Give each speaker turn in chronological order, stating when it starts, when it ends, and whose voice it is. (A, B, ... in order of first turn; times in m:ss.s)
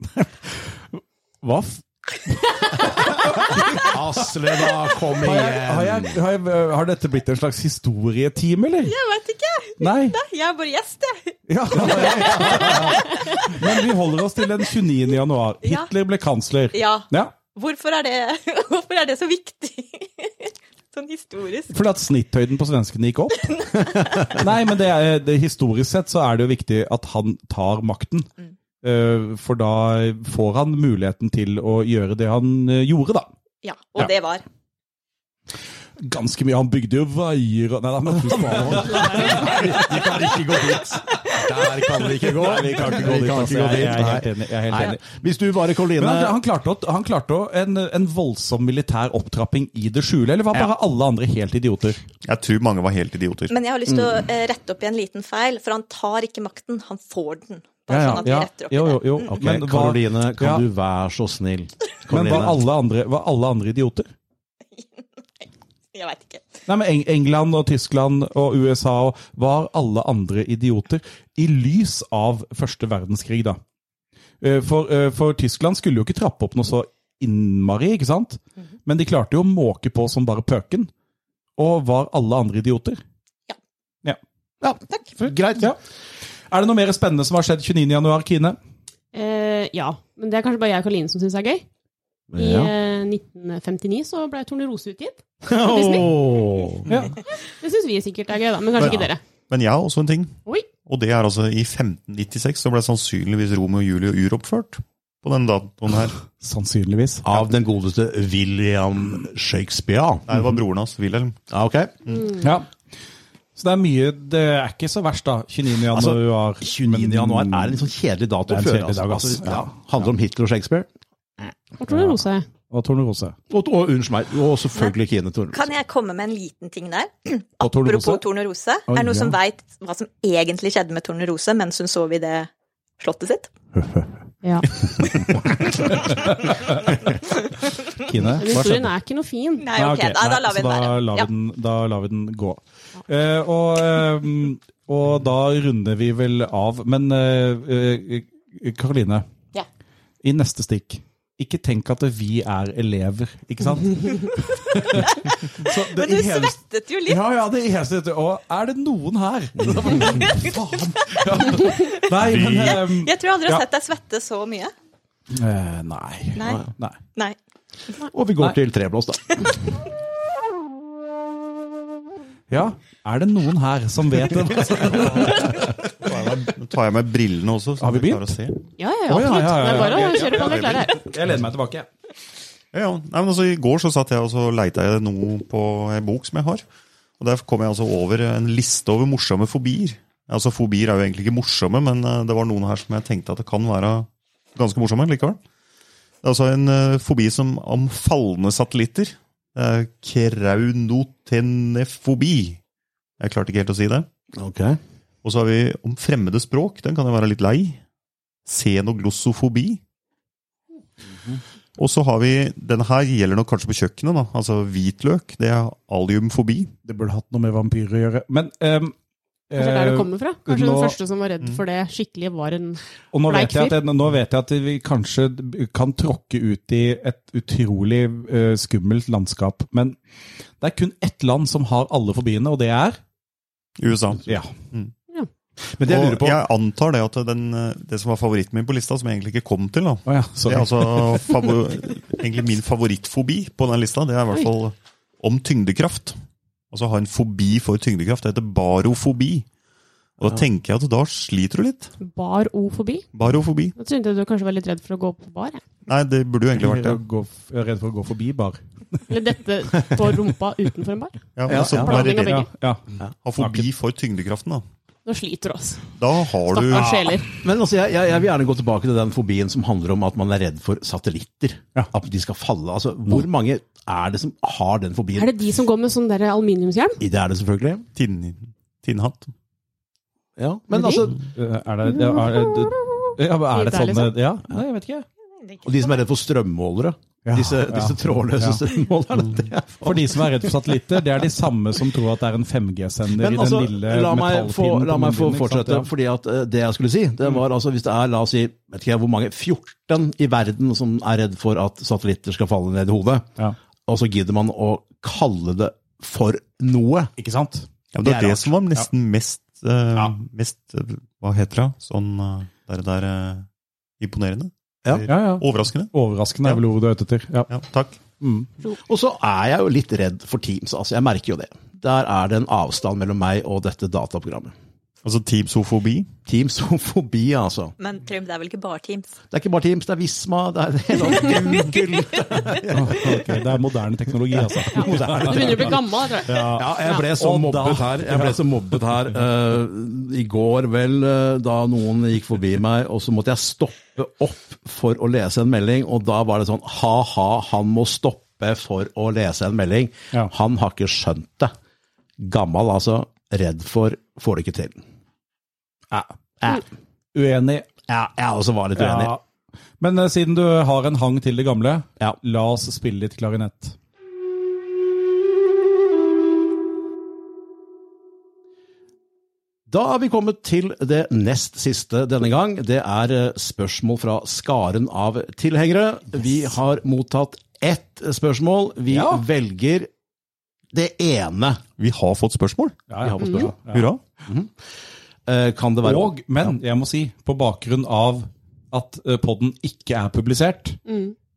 0:00.1-0:04.0 A
0:03.8-0:06.2 B
0:05.1-0:08.9 A
0:08.8-0:13.7 C
0:09.8-0:10.2 A
0:11.5-0:17.3 A
0:15.6-0:15.9 C
0:16.7-0:21.7 C
0:21.7-0:23.6 A
0:23.5-0:24.4 C
0:24.2-0:28.3 A
0:28.8-0:33.3 A
0:33.6-0:34.4 C
0:36.0-0:39.9 A
0:38.2-0:46.4 B
0:42.2-0:45.0 A
0:46.0-0:52.0 A
0:52.2-0:53.6 D
0:53.5-0:59.3 C
0:57.9-1:00.6 A
0:59.3-1:02.6 B
1:02.1-1:04.1 A
1:04.8-1:06.6 C
1:06.7-1:13.6 A
1:14.4-1:20.9 A
1:21.6-1:23.0 A
1:24.6-1:25.7 B
1:25.2-1:25.8 A
1:26.5-1:28.6 A
1:29.1-1:31.6 E
1:32.3-1:32.7 B
1:32.4-1:36.2 E
1:35.4-1:37.0 B
1:36.9-1:37.2 A
1:37.6-1:39.2 E
1:38.8-1:46.2 D
1:46.3-1:47.3 A
1:47.2-1:50.4 B
1:50.3-1:51.4 D
1:51.5-1:52.0 B
1:52.4-1:52.7 A
1:53.6-1:57.9 A
1:55.9-2:01.5 B
1:58.5-2:00.0 A
2:01.8-2:02.4 E
2:01.9-2:02.2 A
2:02.7-2:03.4 A
2:03.5-2:05.7 B
2:05.5-2:13.5 C
2:07.6-2:08.2 A
2:08.9-2:09.3 B
2:13.8-2:14.2 A
2:14.8-2:17.2 A
2:17.9-2:18.9 A
2:18.4-2:19.7 E
2:19.6-2:21.3 C
2:19.7-2:29.3 A
2:30.2-2:43.6 A
2:35.6-2:37.2 C
2:39.6-2:39.9 B
2:40.3-2:40.6 C
2:41.1-2:44.7 C
2:45.3-2:47.0 A
2:46.4-2:46.6 C
2:48.1-2:49.4 B
2:52.5-2:55.7 A
2:56.0-2:58.6 D
2:57.8-2:58.4 A
2:58.8-3:01.0 E
2:59.1-3:01.9 A
2:59.9-3:00.9 D
3:02.7-3:06.6 D
3:07.2-3:15.4 D
3:16.2-3:22.6 D
3:23.2-3:24.1 D
3:24.3-3:24.8 B
3:25.2-3:27.8 D
3:28.4-3:29.8 D
3:31.8-3:36.7 D
3:36.8-3:39.0 A
3:39.5-3:41.0 A
3:39.6-3:43.8 E
3:43.1-3:50.0 A
3:50.6-3:53.0 A
3:53.8-3:54.9 D
3:54.3-3:54.5 A
3:55.7-3:56.4 B
3:55.8-4:06.2 D
4:00.1-4:01.2 A
4:06.7-4:09.5 D
4:10.2-4:11.9 D
4:12.0-4:13.1 E
4:13.1-4:13.8 D
4:13.8-4:15.6 E
4:15.9-4:17.0 D
4:16.6-4:19.0 A
4:19.1-4:22.5 E
4:21.4-4:22.5 D
4:21.5-4:22.0 B
4:21.9-4:23.7 A
4:23.2-4:24.6 D
4:25.1-4:25.9 E
4:26.0-4:27.2 D
4:26.5-4:27.3 E
4:27.4-4:35.3 B
4:35.2-4:37.0 E
4:37.0-4:37.9 B
4:37.9-4:39.3 D
4:40.4-4:41.2 B
4:40.7-4:41.1 E
4:41.4-4:45.1 A
4:42.0-4:42.3 E
4:43.5-4:44.1 E
4:45.4-4:46.0 C
4:45.6-4:50.8 B
4:47.2-4:48.7 A
4:49.8-4:55.9 A
4:53.1-5:03.3 B
5:03.9-5:07.1 B
5:07.2-5:08.9 A
5:07.9-5:13.5 D
5:08.0-5:08.5 B
5:14.0-5:15.9 D
5:15.1-5:17.5 A
5:17.5-5:18.0 D
5:18.2-5:18.5 A
5:18.8-5:24.5 B
5:25.0-5:26.1 D
5:26.3-5:27.8 B
5:27.8-5:29.2 C
5:29.3-5:33.3 B
5:32.7-5:38.6 A
5:34.4-5:35.8 B
5:34.7-5:37.0 E
5:36.5-5:51.5 B
5:52.2-5:54.8 B
5:57.1-5:57.8 A
5:57.9-5:59.1 B
5:58.8-5:59.2 A
5:59.8-6:03.8 A
6:09.7-6:19.9 B
6:18.9-6:19.2 A
6:20.7-6:21.6 B
6:21.8-6:22.8 D
6:22.9-6:23.9 A
6:23.0-6:23.6 B
6:23.2-6:23.5 E
6:23.7-6:24.0 D
6:24.2-6:24.7 B
6:25.2-6:26.6 B
6:25.8-6:30.8 A
6:30.9-6:31.1 E